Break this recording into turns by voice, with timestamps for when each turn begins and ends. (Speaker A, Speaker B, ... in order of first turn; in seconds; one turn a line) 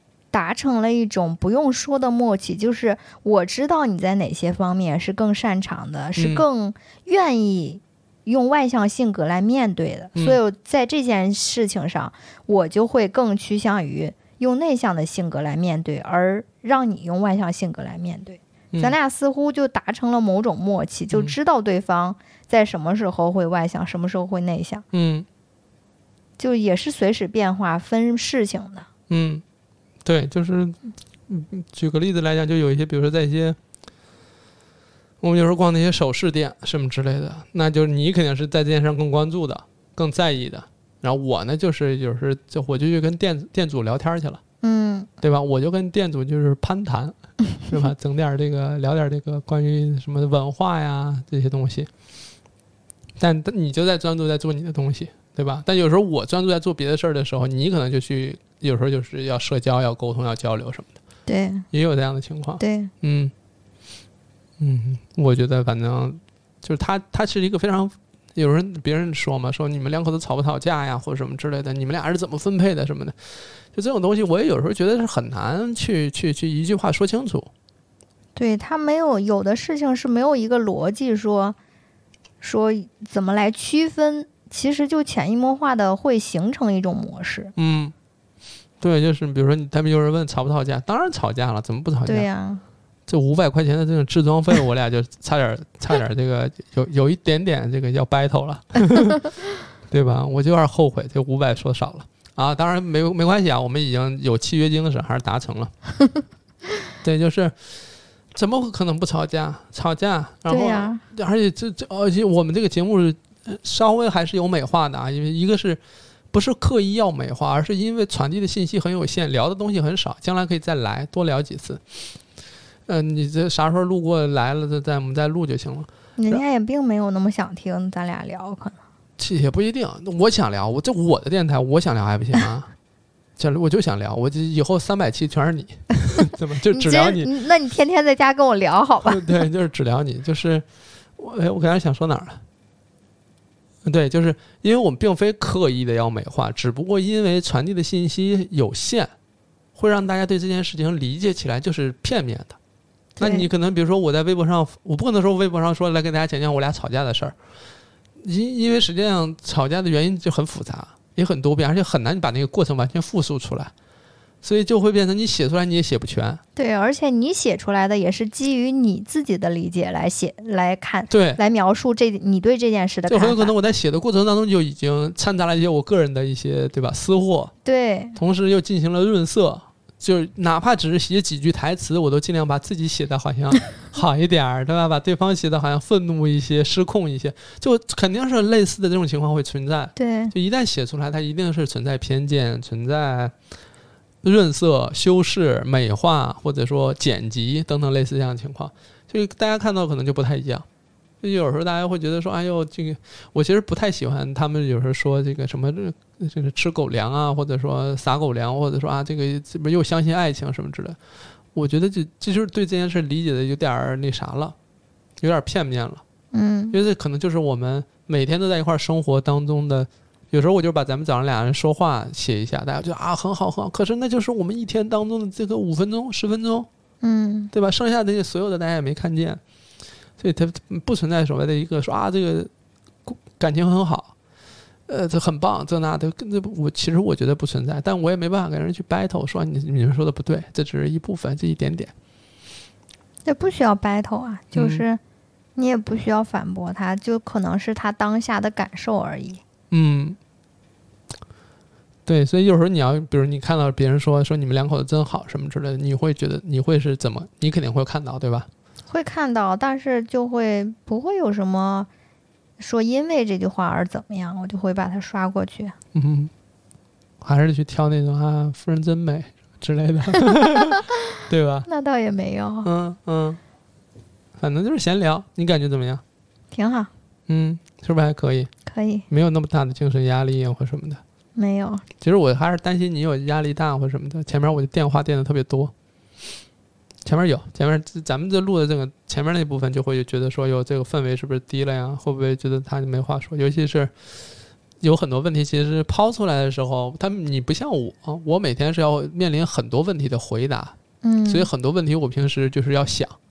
Speaker A: 0.3-24.9
Speaker B: 6.2-6.5
Speaker B: 21.1-21.4
Speaker B: 24.9-25.3
Speaker A: 26.4-28.9
Speaker B: 29.1-29.4
Speaker B: 30.1-33.6
Speaker B: 35.2-44.4
Speaker A: 44.6-45.1
Speaker B: 45.2-51.9
Speaker B: 53.2-61.0
Speaker A: 61.3-61.7
Speaker B: 61.7-63.3
Speaker A: 62.6-62.9
Speaker B: 64.6-73.1
Speaker B: 73.7-77.5
Speaker A: 78.3-81.6
Speaker A: 82.4-87.5
Speaker B: 87.6-87.9
Speaker B: 88.8-92.3
Speaker A: 92.1-92.6
Speaker B: 93.1-99.3
Speaker B: 99.9-105.7
Speaker B: 107.0-107.5
Speaker B: 108.3-115.8
Speaker A: 110.5-111.0
Speaker B: 116.3-122.0
Speaker B: 122.9-126.4
Speaker A: 126.2-128.8
Speaker B: 129.2-132.7
Speaker B: 133.4-137.3
Speaker A: 136.7-139.3
Speaker B: 139.0-140.7
Speaker B: 141.2-142.4
Speaker B: 143.8-149.1
Speaker B: 149.8-152.6
Speaker A: 153.2-153.5
Speaker B: 153.2-157.4
Speaker B: 158.2-163.7
Speaker B: 164.4-166.4
Speaker A: 166.6-173.5
Speaker B: 171.1-171.4
Speaker B: 173.1-177.5
Speaker A: 177.7-178.2
Speaker B: 178.2-193.3
Speaker A: 190.0-190.3
Speaker B: 194.2-200.7
Speaker B: 201.2-211.0
Speaker B: 211.5-214.6
Speaker B: 215.2-216.0
Speaker A: 216.3-216.8
Speaker B: 216.7-226.7
Speaker A: 227.0-227.5
Speaker B: 227.5-229.4
Speaker B: 230.2-232.5
Speaker B: 233.1-234.1
Speaker B: 234.9-241.9
Speaker A: 243.2-245.0
Speaker B: 244.5-244.8
Speaker A: 245.6-249.4
Speaker B: 249.7-250.2
Speaker B: 252.1-258.5
Speaker A: 258.9-261.9
Speaker A: 262.6-265.8
Speaker B: 265.9-266.3
Speaker B: 267.2-271.7
Speaker A: 271.7-272.7
Speaker B: 272.6-273.4
Speaker B: 274.4-276.0
Speaker A: 276.5-276.9
Speaker B: 277.3-278.5
Speaker A: 278.7-279.1
Speaker B: 279.1-281.0
Speaker A: 281.4-281.9
Speaker B: 282.0-285.7
Speaker B: 287.1-293.9
Speaker B: 294.8-300.8
Speaker A: 301.0-301.5
Speaker B: 301.3-303.2